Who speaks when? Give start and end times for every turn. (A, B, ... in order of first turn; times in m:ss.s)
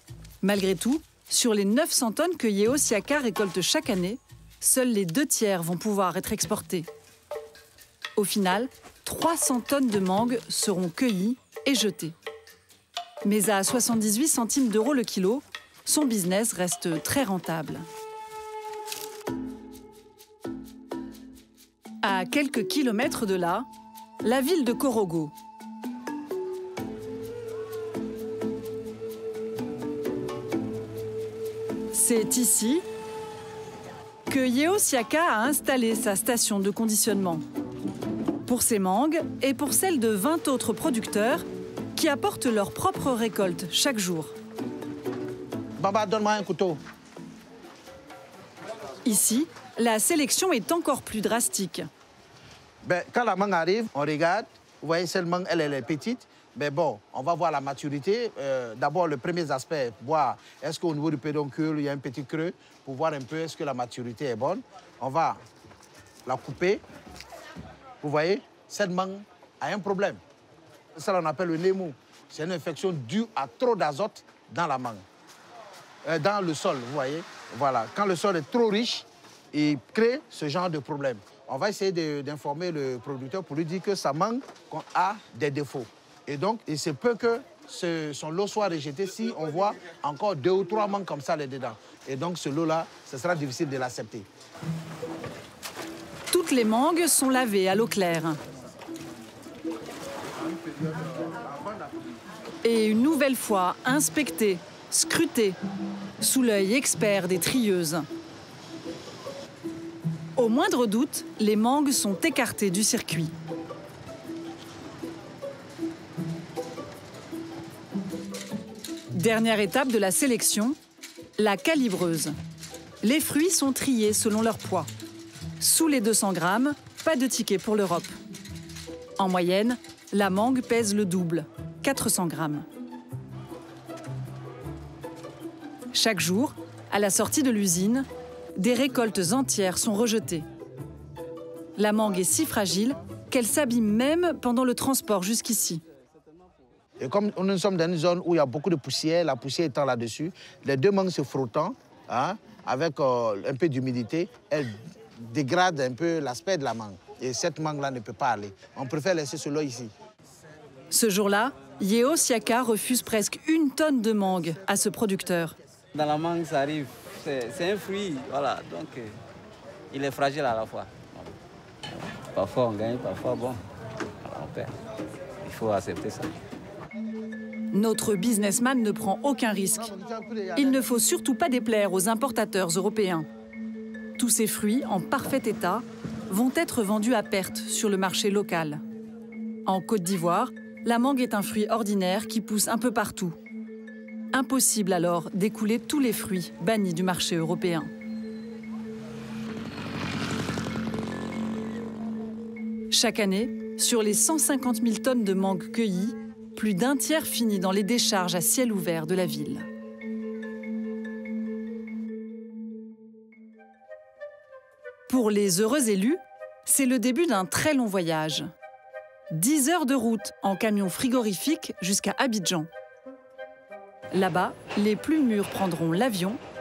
0:00.4-0:06.9 A
0:08.2-0:12.2 A
0:13.2-0:17.9 A
0:22.0-0:23.7 A
0:24.2-0:25.3 A
0:31.9-0:32.8 A
0:34.3-0:37.4 A
0:38.4-0:44.3 A
0:45.8-0:46.8 B
0:49.0-0:51.9 A
0:52.8-1:05.4 B
1:06.2-1:06.8 B
1:08.0-1:10.2 B
1:11.0-1:15.0 B
1:16.0-1:34.3 B
1:36.3-1:38.4 A
1:40.4-1:41.9 B
1:42.6-1:45.6 A
1:46.2-1:48.1 A
1:50.4-1:53.3 A
1:59.1-2:00.8 A
2:01.4-2:02.4 A
2:03.0-2:04.9 A
2:05.6-2:08.2 A
2:09.2-2:12.6 A
2:15.9-2:20.4 A
2:21.8-2:25.8 A
2:27.0-2:39.9 B
2:40.9-2:45.6 A
2:45.9-2:49.2 C
2:49.9-2:51.3 C
2:52.0-2:53.6 C
2:54.2-2:54.7 C
2:55.4-2:56.3 C
2:57.7-2:59.9 A
2:59.7-3:00.9 B
3:00.6-3:03.3 A
3:04.2-3:08.8 A
3:09.6-3:13.4 A
3:14.3-3:17.9 A
3:22.9-3:29.7 A
3:35.1-3:38.5 A
3:39.3-3:42.7 A
3:44.1-3:46.4 A